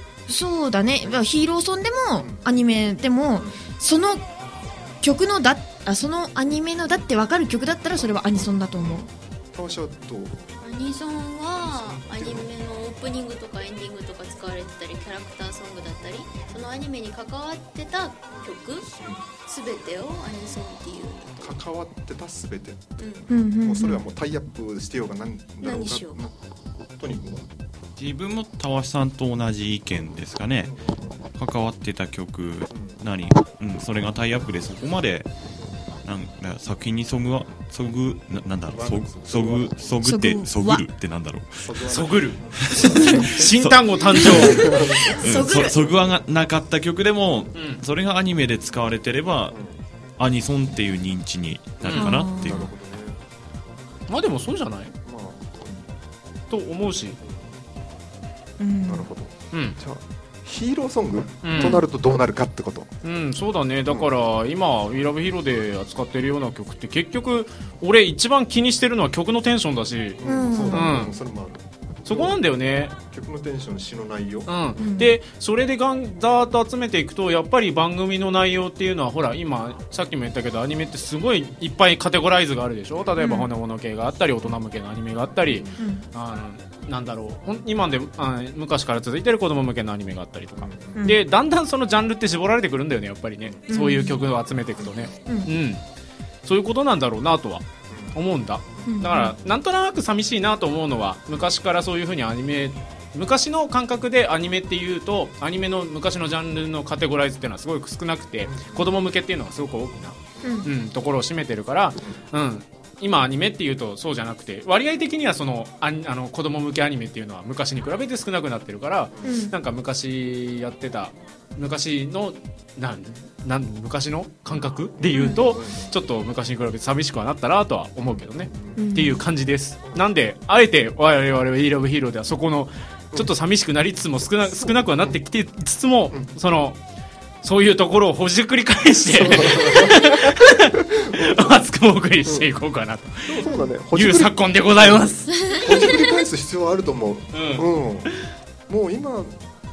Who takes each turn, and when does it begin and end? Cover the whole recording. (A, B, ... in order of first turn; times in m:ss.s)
0:00.3-0:04.2 A
0:01.0-0:01.2 B
0:02.2-0:02.4 B
0:05.0-0:09.1 A
0:08.0-0:10.5 B
0:10.6-0:18.9 C
0:11.6-0:12.5 B
0:18.3-0:19.3 B
0:19.5-0:21.6 C
0:21.4-0:26.4 B
0:23.0-0:23.3 C
0:23.3-0:24.0 A
0:25.6-0:26.2 C
0:26.9-0:27.5 B
0:28.0-0:30.8 D
0:30.0-0:31.2 B
0:31.4-0:35.3 D
0:32.7-0:33.0 B
0:36.0-0:41.7 D
0:38.7-0:40.0 B
0:40.0-0:40.8 A
0:41.6-0:43.5 B
0:41.9-0:44.8 E
0:42.6-0:49.6 D
0:44.4-0:45.9 A
0:44.5-0:45.5 B
0:47.6-0:47.8 E
0:49.5-0:49.8 B
0:50.2-0:52.7 D
0:51.8-0:53.2 B
0:51.8-0:52.1 E
0:51.9-0:52.7 A
0:54.1-0:54.9 E
0:55.0-0:55.9 B
0:56.5-0:57.2 E
0:57.2-0:57.6 B
0:58.6-0:59.1 A
0:58.8-1:02.9 B
0:59.5-0:59.8 E
1:01.4-1:01.8 E
1:01.6-1:01.8 A
1:03.0-1:11.1 E
1:10.2-1:12.4 B
1:10.2-1:10.9 A
1:12.0-1:13.0 E
1:13.1-1:14.8 B
1:14.5-1:35.8 E
1:14.8-1:15.2 A
1:22.9-1:23.2 B
1:23.2-1:23.5 A
1:25.4-1:25.9 B
1:25.8-1:26.0 A
1:30.6-1:31.1 B
1:31.0-1:31.2 A
1:33.4-1:33.9 B
1:33.7-1:34.2 A
1:34.8-1:35.2 B
1:35.3-1:35.5 A
1:36.4-2:16.8 E
1:37.9-1:38.2 B
1:38.9-1:39.3 A
1:48.4-1:48.9 B
1:50.4-1:50.7 A
1:59.1-1:59.5 B
1:59.2-1:59.5 A
2:04.5-2:06.0 B
2:05.2-2:05.4 A
2:08.0-2:08.9 B
2:08.8-2:09.2 A
2:14.4-2:15.2 B
2:17.4-2:25.3 E
2:19.1-2:21.5 B
2:22.2-2:22.5 B
2:23.2-2:28.1 B
2:25.5-2:26.0 A
2:27.3-2:28.3 E
2:28.7-2:29.4 B